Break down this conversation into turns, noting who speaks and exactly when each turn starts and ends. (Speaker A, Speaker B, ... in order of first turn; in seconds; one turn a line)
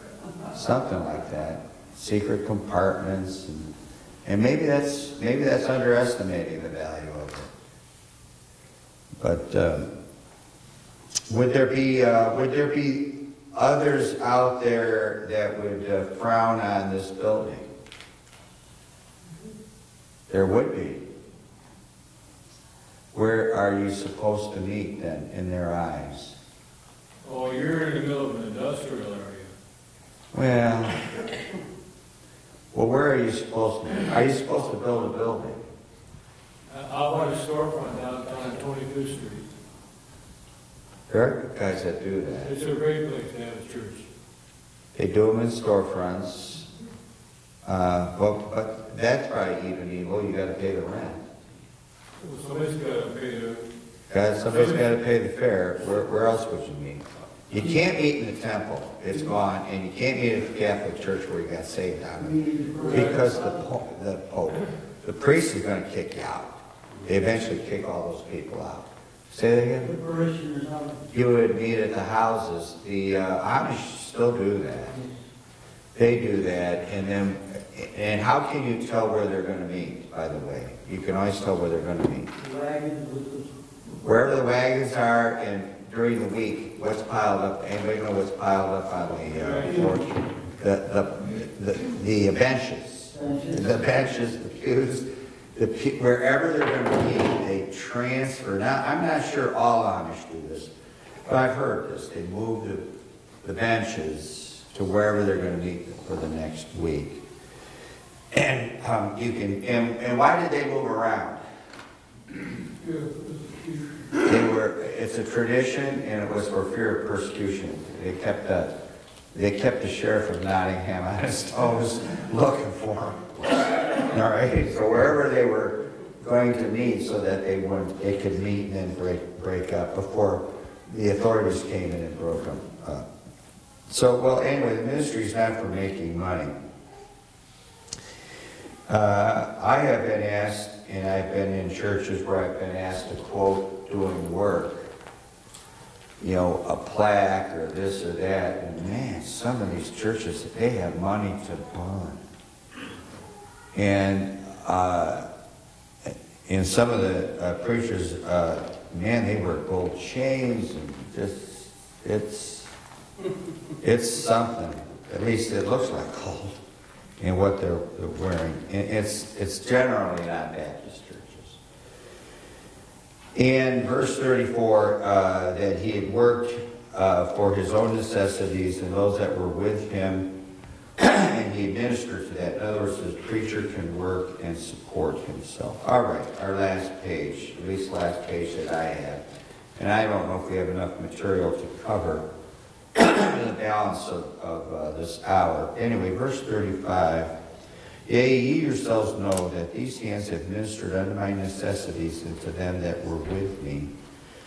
Speaker A: 0.5-7.5
Speaker A: 9.2-9.9
Speaker A: 11.3-17.7
Speaker A: 20.3-21.1
Speaker A: 23.1-26.4
Speaker B: 27.2-29.5
Speaker A: 30.3-31.1
Speaker A: 32.7-35.7
Speaker B: 36.7-39.5
Speaker A: 41.1-42.5
Speaker B: 42.3-44.0
Speaker A: 44.9-46.7
Speaker A: 47.6-51.2
Speaker B: 52.2-53.6
Speaker A: 54.1-69.9
Speaker B: 54.5-54.8
Speaker C: 62.2-63.6
Speaker C: 69.8-71.1
Speaker A: 71.1-75.0
Speaker C: 74.9-75.2
Speaker A: 75.9-82.3
Speaker C: 82.4-83.5
Speaker A: 84.0-100.7
Speaker B: 89.3-89.7
Speaker C: 89.6-90.0
Speaker C: 93.1-93.9
Speaker A: 101.2-102.9
Speaker A: 103.4-107.2
Speaker A: 108.3-111.4
Speaker B: 112.8-113.9
Speaker A: 114.2-118.8
Speaker A: 119.3-133.1
Speaker A: 133.9-136.5
Speaker A: 138.9-144.9
Speaker A: 146.2-152.2
Speaker A: 153.7-155.3
Speaker A: 156.1-162.7
Speaker A: 163.8-166.6
Speaker A: 167.2-171.6
Speaker A: 173.3-180.3
Speaker A: 181.0-189.2
Speaker A: 189.8-192.2
Speaker A: 192.9-197.3
Speaker A: 198.1-203.9